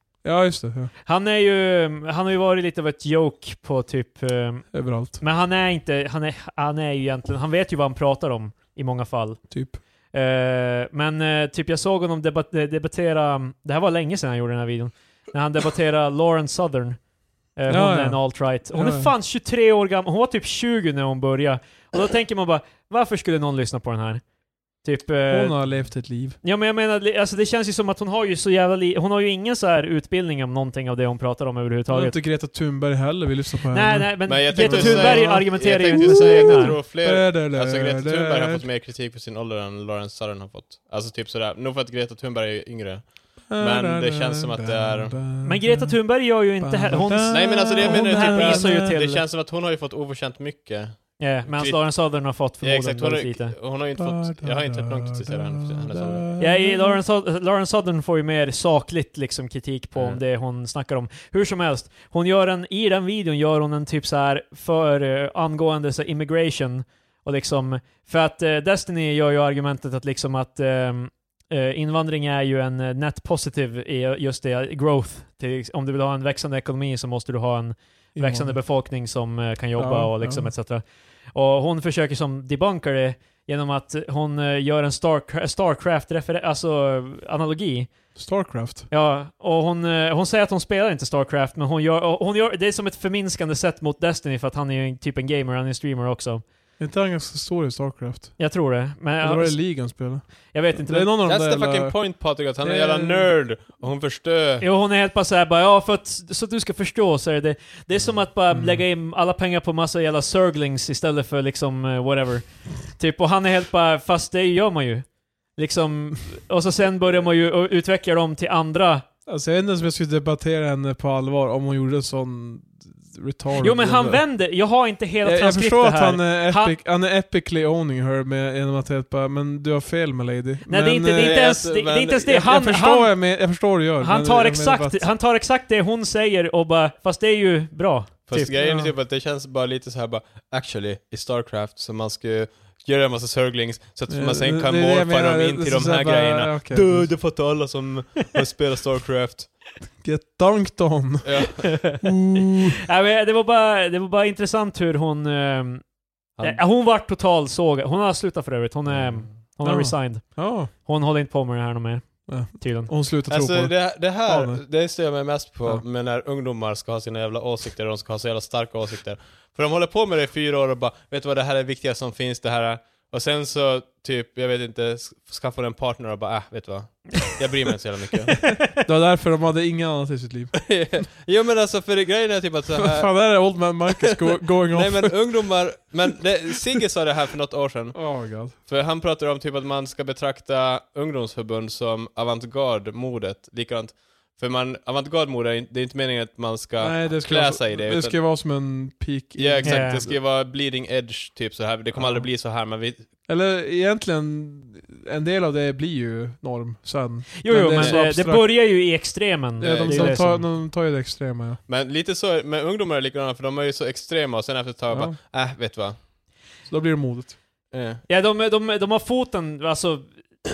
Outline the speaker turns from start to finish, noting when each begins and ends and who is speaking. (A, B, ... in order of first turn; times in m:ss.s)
0:00.2-0:00.9 A
0:01.0-0:24.2 B
0:04.7-0:05.2 A
0:09.5-0:09.8 A
0:17.7-0:19.1 A
0:24.8-0:32.2 B
0:25.3-0:26.4 A
0:31.9-0:38.7 A
0:33.7-0:36.8 B
0:34.2-0:45.3 C
0:43.5-0:49.0 A
0:45.4-0:49.2 B
0:47.3-0:56.3 C
0:51.2-0:53.6 B
0:54.0-0:57.0 A
0:56.4-1:28.2 B
1:00.0-1:00.2 C
1:18.2-1:18.8 A
1:19.8-1:20.6 A
1:28.2-1:28.9 A
1:28.9-1:36.4 B
1:36.8-1:38.6 A
1:38.4-1:41.2 B
1:39.2-1:43.3 A
1:41.2-1:44.7 C
1:44.6-1:59.0 B
1:48.5-1:48.9 A
1:59.3-2:04.3 A
2:03.6-2:06.8 B
2:05.2-2:11.4 A
2:10.7-2:18.5 B
2:11.2-2:12.4 C
2:12.3-2:15.1 A
2:18.3-2:29.6 C
2:18.3-2:18.9 A
2:24.1-2:27.2 A
2:29.9-2:32.8 A
2:31.2-2:31.8 C
2:31.8-2:32.2 B
2:32.9-2:42.9 B
2:38.9-2:39.4 C
2:39.6-2:40.7 A
2:42.3-2:44.7 A
2:43.3-2:58.5 C
2:58.6-3:00.8 A
3:00.7-3:18.3 C
3:02.8-3:05.4 A
3:07.9-3:08.6 A
3:16.8-3:20.2 A
3:19.4-3:23.1 C
3:19.6-3:20.0 B
3:21.9-3:22.3 A
3:23.3-3:29.1 A
3:27.4-3:30.5 B
3:29.6-3:31.6 A
3:29.6-3:30.4 C
3:31.7-3:36.0 C
3:34.9-3:35.2 A
3:36.6-3:37.4 A
3:37.7-3:38.0 C
3:38.1-3:40.2 B